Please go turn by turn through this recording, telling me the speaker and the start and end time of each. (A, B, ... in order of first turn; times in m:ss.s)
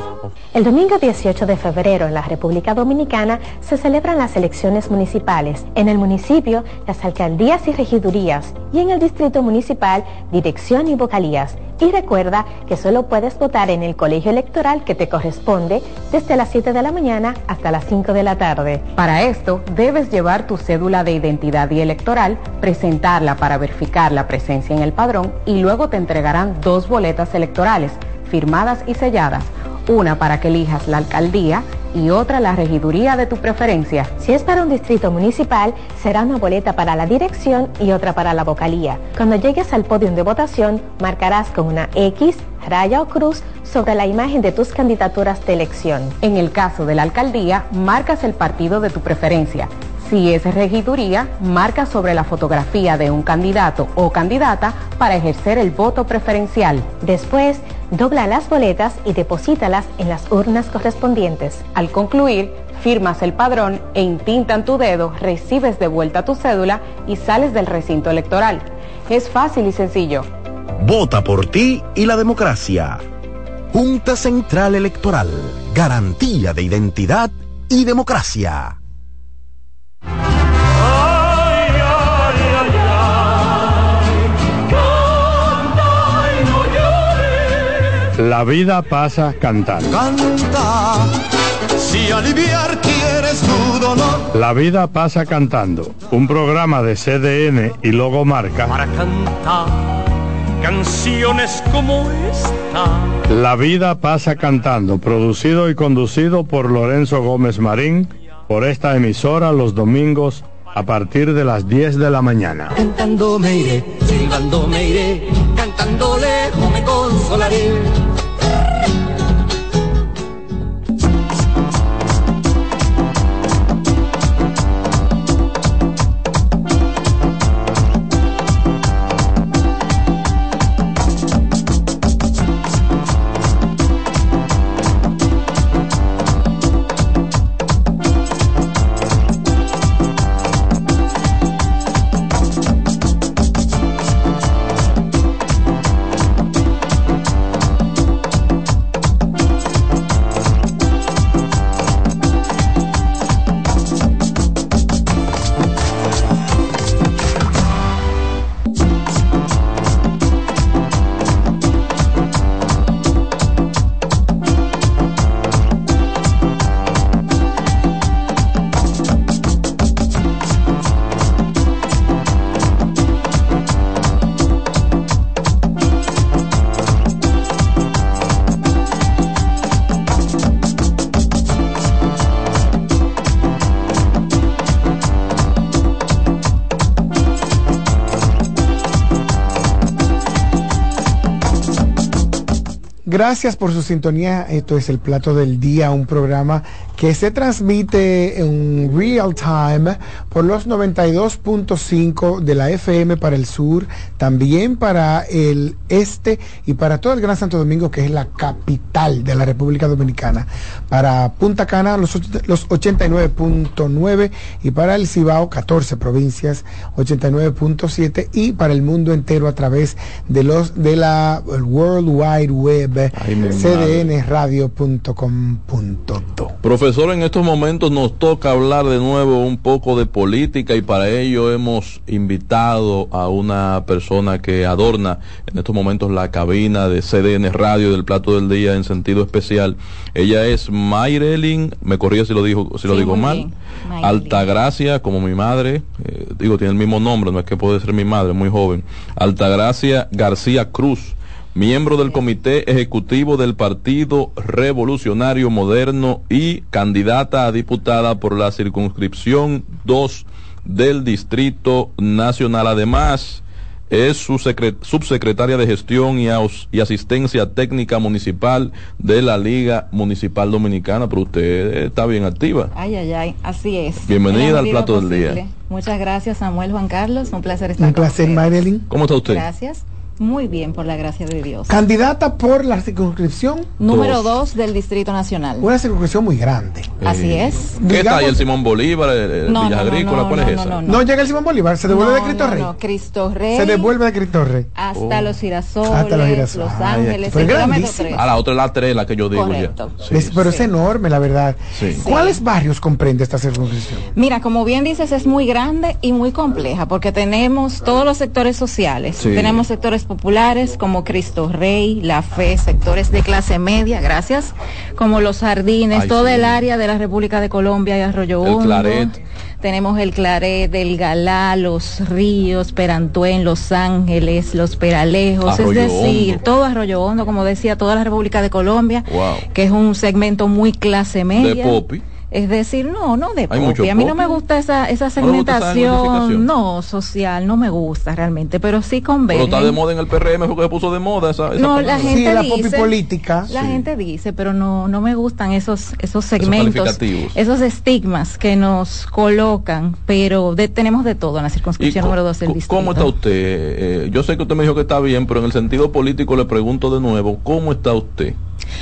0:00.5-1:10.3 A
1:10.8-1:13.0 B
1:13.7-1:18.8 B
1:28.2-1:30.0 C
1:30.0-1:31.0 D
1:31.8-1:34.2 D
1:34.3-1:38.8 C
1:38.7-1:39.8 D
1:40.6-1:43.1 D
1:43.3-1:52.8 C
1:53.9-1:55.0 D
1:55.5-1:57.7 D
3:13.0-3:46.5 E
3:43.1-3:44.1 F
3:46.6-4:03.4 F
4:02.8-4:04.4 G
4:04.0-4:32.7 F
4:32.7-4:38.7 G
4:34.0-4:35.4 F
4:37.8-4:38.8 E
4:38.9-4:39.4 F
4:39.2-4:41.8 G
4:41.7-4:43.7 E
4:43.8-4:45.7 G
4:43.9-4:44.3 F
4:45.6-4:46.9 E
4:47.0-4:50.9 F
4:47.0-4:47.8 G
4:47.8-4:48.4 E
4:49.5-4:51.0 G
4:50.8-4:52.7 E
4:51.9-4:53.9 G
4:53.5-4:54.7 E
4:54.7-4:58.2 G
4:54.9-4:55.3 F
4:55.8-4:56.8 E
4:56.7-5:00.4 F
4:57.3-4:58.2 E
4:59.3-5:00.7 G
5:00.1-5:04.0 E
5:01.8-5:02.0 F
5:02.0-5:02.4 G
5:04.1-5:39.8 G
5:09.2-5:09.6 F
5:15.9-5:16.6 F
5:18.4-5:19.1 F
5:25.4-5:26.4 F
5:29.1-5:29.5 F
5:31.4-5:32.0 F
5:33.5-5:34.2 F
5:35.2-5:36.5 F
5:39.3-5:42.2 F
5:41.6-5:43.0 G
5:42.1-5:43.5 E
5:43.5-5:43.8 F
5:43.5-5:53.1 G
5:46.4-5:47.4 F
5:51.8-5:58.4 F